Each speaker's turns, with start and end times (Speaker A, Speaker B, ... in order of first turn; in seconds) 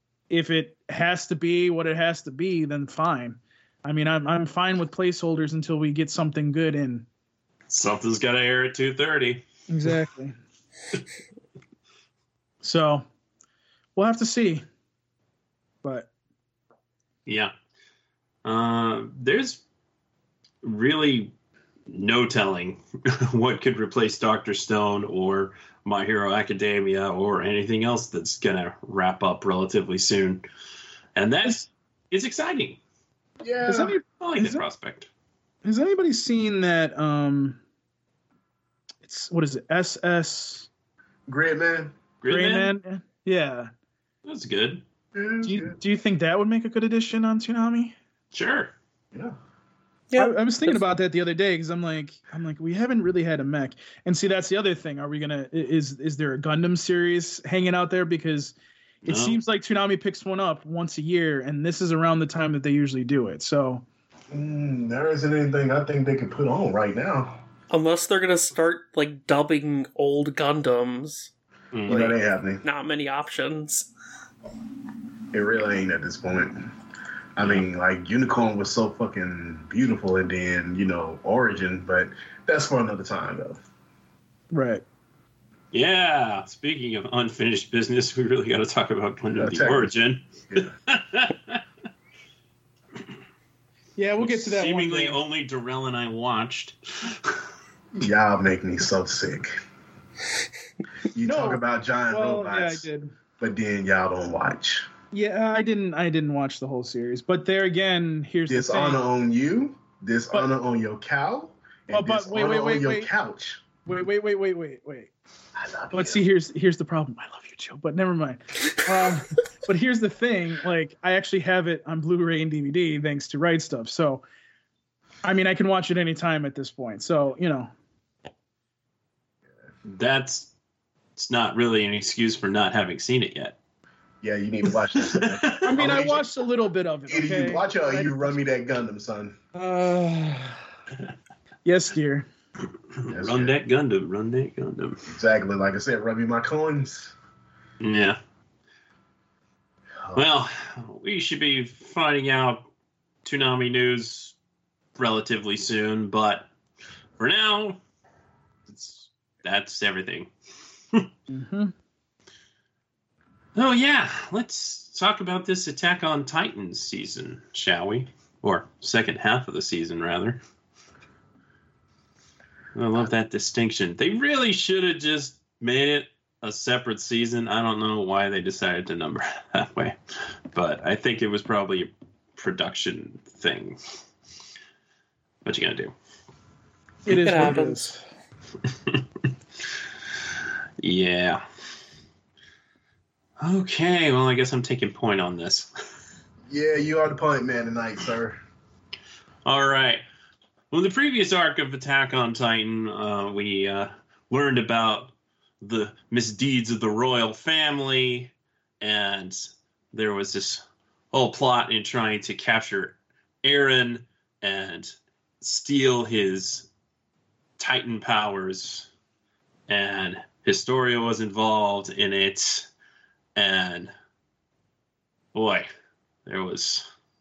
Speaker A: 0.3-7.1, 9.7-10.4, 12.6-13.1, 14.0-14.6, 15.8-16.1, 33.7-34.6, 35.6-37.6, 39.0-40.7, 42.3-43.7, 45.4-48.0, 50.2-58.5, 59.1-63.8, 84.5-84.8, 94.0-95.2, 101.2-103.1, 105.1-109.0, 111.9-113.1, 113.8-115.1, 115.9-124.2, 125.2-127.7, 135.6-138.4, 139.6-140.6, 141.7-142.3, 161.3-161.7, 187.1-188.0
Speaker B: 7.7-9.4, 17.3-17.5, 18.4-19.6, 20.6-21.3, 21.9-30.4, 31.2-32.8, 34.2-35.1, 42.2-42.7, 44.2-44.8, 48.3-48.7, 59.0-59.4, 71.7-72.2, 85.7-91.6, 94.2-97.4, 129.9-130.5, 131.2-133.6, 135.0-135.8, 143.0-145.0, 147.8-148.2, 150.2-152.7, 153.2-154.3, 155.0-156.5, 157.2-157.8, 158.7-160.3, 163.6-170.4, 172.8-180.0, 180.5-183.8, 185.4-185.9, 187.1-187.6, 190.8-191.4, 193.4-195.7, 199.5-200.0, 200.7-216.7, 217.6-218.9, 219.7-222.7, 223.4-223.9, 225.3-225.7, 226.3-226.9
Speaker C: 33.4-34.0, 41.3-42.0, 45.1-45.8, 64.3-67.4, 71.9-72.6, 75.3-76.7, 77.4-83.6, 89.4-89.9, 97.9-99.5, 101.1-102.8, 103.4-104.9, 108.5-113.6, 115.6-116.2, 134.2-136.2, 137.1-139.4, 143.1-143.5, 145.1-147.2, 196.5-198.4
Speaker D: 50.1-50.8, 67.7-71.3, 72.6-73.9, 187.2-187.9